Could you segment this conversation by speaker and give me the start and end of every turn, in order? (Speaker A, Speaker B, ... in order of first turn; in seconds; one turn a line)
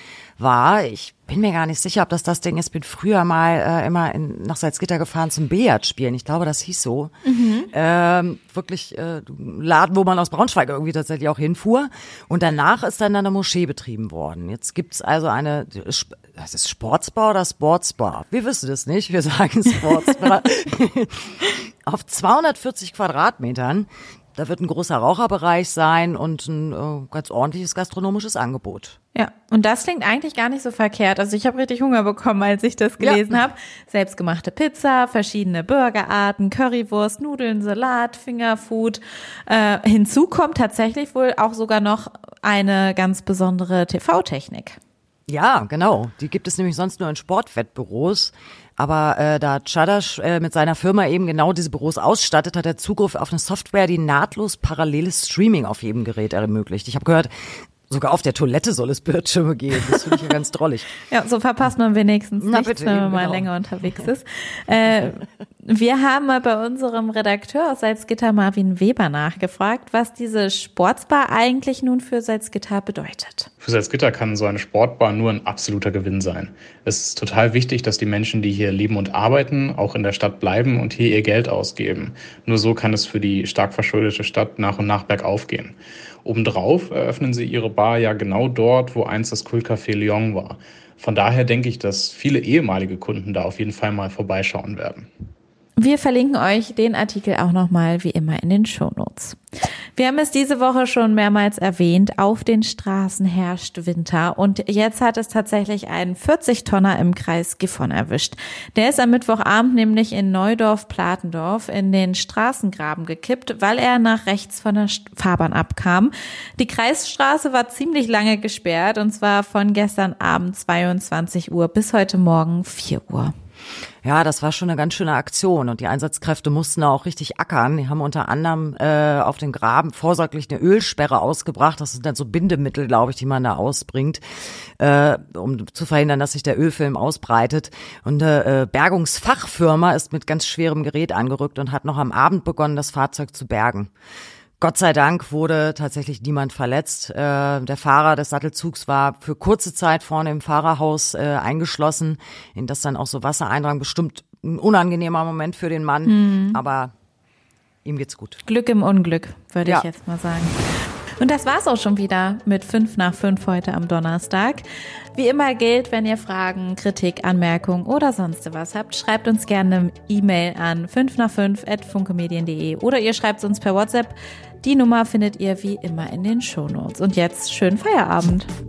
Speaker A: 0.4-7.1
Speaker B: 7.2-7.7
Speaker A: 7.7-29.0
Speaker B: 29.1-44.8
Speaker A: 33.0-33.4
Speaker A: 45.3-60.9
Speaker B: 61.1-73.5
Speaker A: 62.4-63.5
Speaker C: 73.6-95.1
Speaker B: 95.8-99.4
Speaker B: 100.0-123.3
Speaker A: 124.0-134.2
Speaker A: 134.8-143.9
Speaker A: 144.6-156.9
Speaker B: 156.1-156.6
Speaker A: 157.8-158.4
Speaker B: 158.4-160.6
Speaker B: 161.2-164.6
Speaker B: 165.1-178.5